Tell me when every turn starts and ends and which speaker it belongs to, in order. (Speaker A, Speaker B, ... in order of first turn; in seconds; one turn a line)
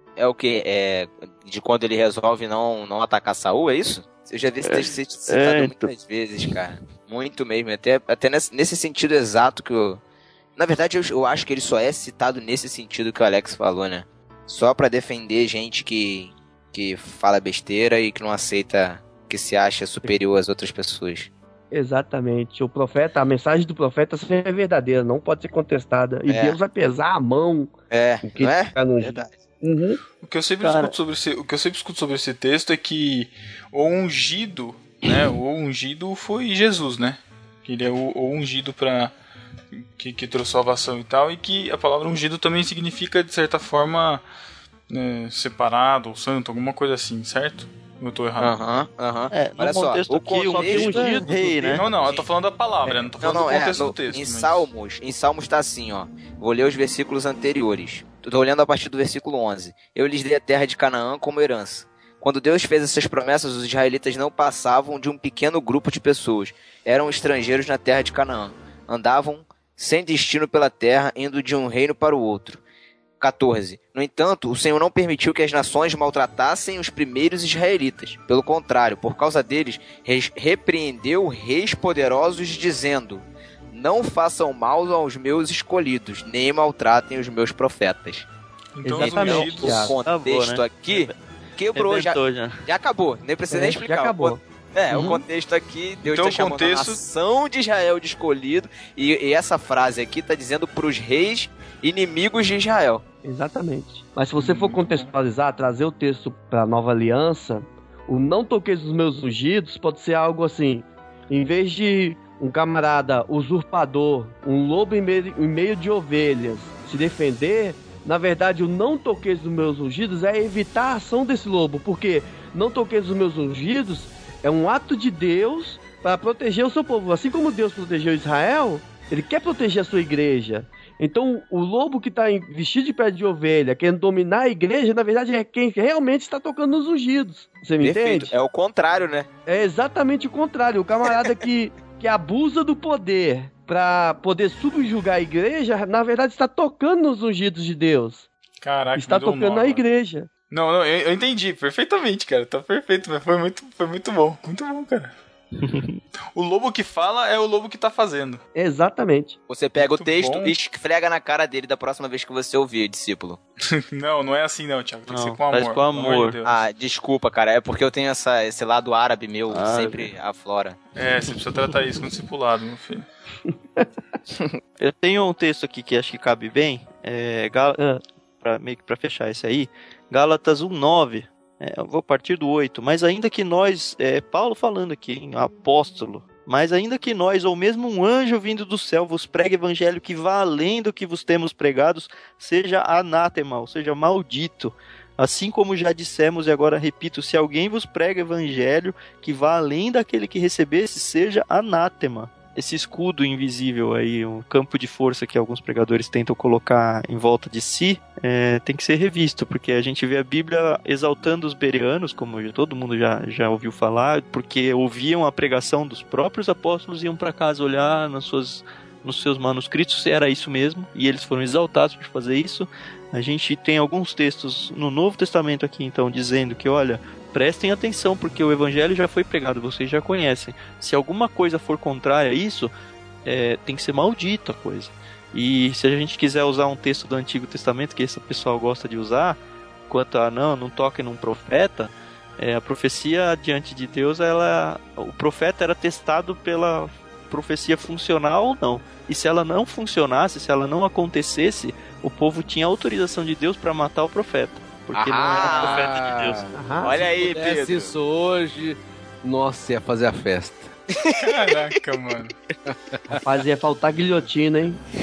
Speaker A: 0.2-10.0
Speaker B: 4.6-5.9
Speaker A: 10.6-21.3
Speaker C: 21.7-27.7
Speaker A: 26.3-26.6
Speaker A: 27.9-29.4
Speaker C: 28.3-30.0
Speaker D: 30.2-39.1
Speaker B: 30.6-30.9
Speaker D: 39.8-44.2
Speaker D: 44.9-48.5
Speaker A: 48.4-51.1
Speaker B: 49.3-51.8
Speaker C: 50.5-51.8
Speaker D: 51.8-54.7
Speaker A: 51.8-52.2
Speaker A: 53.2-72.6
Speaker A: 73.2-88.3
Speaker D: 88.8-90.0
Speaker C: 88.8-90.0
Speaker A: 89.0-103.0
Speaker B: 89.8-91.2
Speaker B: 91.8-92.6
Speaker C: 93.5-94.4
Speaker D: 96.0-97.0
Speaker C: 103.2-138.3
Speaker D: 104.4-105.1
Speaker A: 137.8-139.3
Speaker C: 139.5-148.3
Speaker D: 148.6-149.8
Speaker C: 149.0-150.3
Speaker D: 150.5-155.1
Speaker B: 155.6-156.0
Speaker D: 156.3-158.4
Speaker C: 158.6-159.4
Speaker A: 159.5-163.4
Speaker D: 159.8-160.6
Speaker D: 163.7-166.6
Speaker B: 165.1-166.4
Speaker A: 166.4-170.8
Speaker B: 169.5-170.1
Speaker D: 171.0-173.1
Speaker B: 174.8-177.8
Speaker B: 178.4-232.7
Speaker B: 233.2-256.5
Speaker E: 254.9-256.4
Speaker A: 255.1-256.1
Speaker C: 256.5-257.0
Speaker A: 256.8-257.9
Speaker E: 257.0-260.7
Speaker A: 261.0-261.7
Speaker D: 261.2-262.4
Speaker C: 263.1-264.8